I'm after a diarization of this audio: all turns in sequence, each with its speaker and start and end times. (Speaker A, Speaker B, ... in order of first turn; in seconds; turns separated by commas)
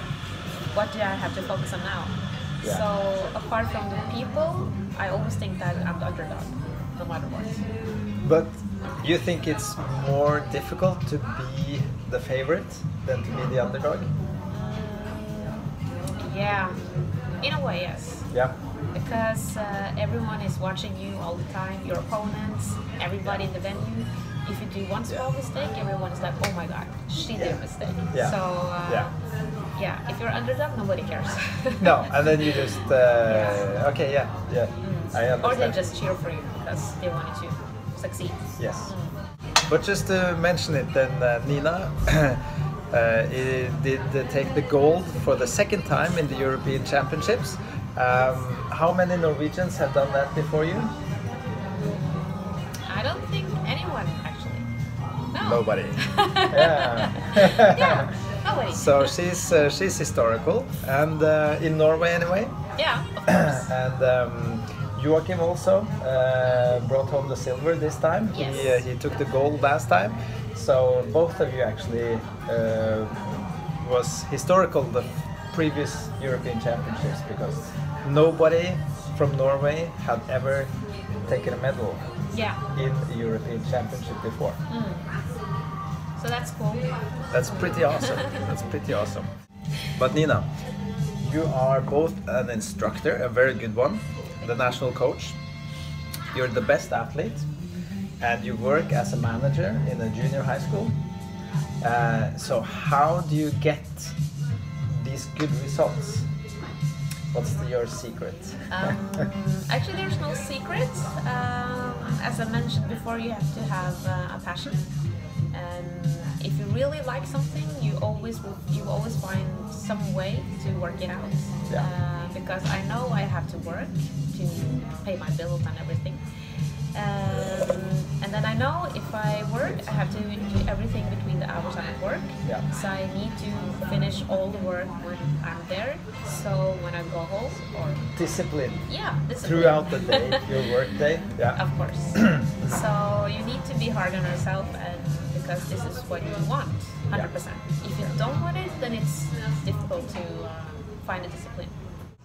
Speaker A: 0.7-7.6, Speaker B: 8.2-14.1, Speaker A: 14.5-15.7, Speaker A: 16.2-18.3, Speaker B: 18.3-18.6, Speaker A: 18.9-29.1, Speaker B: 27.3-29.1, Speaker A: 29.8-32.5, Speaker B: 31.8-35.8, Speaker A: 33.2-33.7, Speaker A: 34.8-39.2, Speaker B: 38.6-38.9, Speaker B: 39.7-50.9, Speaker A: 51.8-54.7, Speaker A: 55.3-59.1, Speaker B: 55.4-58.1, Speaker B: 58.7-62.6, Speaker A: 62.8-63.7, Speaker B: 63.3-80.7, Speaker A: 68.3-68.8, Speaker B: 81.3-82.1, Speaker A: 82.3-82.6, Speaker B: 82.7-84.6, Speaker A: 84.7-85.1, Speaker A: 86.2-86.9, Speaker B: 87.3-89.3, Speaker B: 89.9-90.5, Speaker B: 91.2-95.4, Speaker B: 96.3-97.5, Speaker B: 98.2-101.0, Speaker B: 101.8-104.2, Speaker B: 104.9-106.3, Speaker B: 107.3-109.2, Speaker A: 108.7-114.9, Speaker A: 115.5-126.2, Speaker A: 126.9-138.1, Speaker B: 129.6-129.9, Speaker B: 138.2-141.6, Speaker A: 138.9-140.4, Speaker A: 141.6-151.8, Speaker B: 142.1-142.7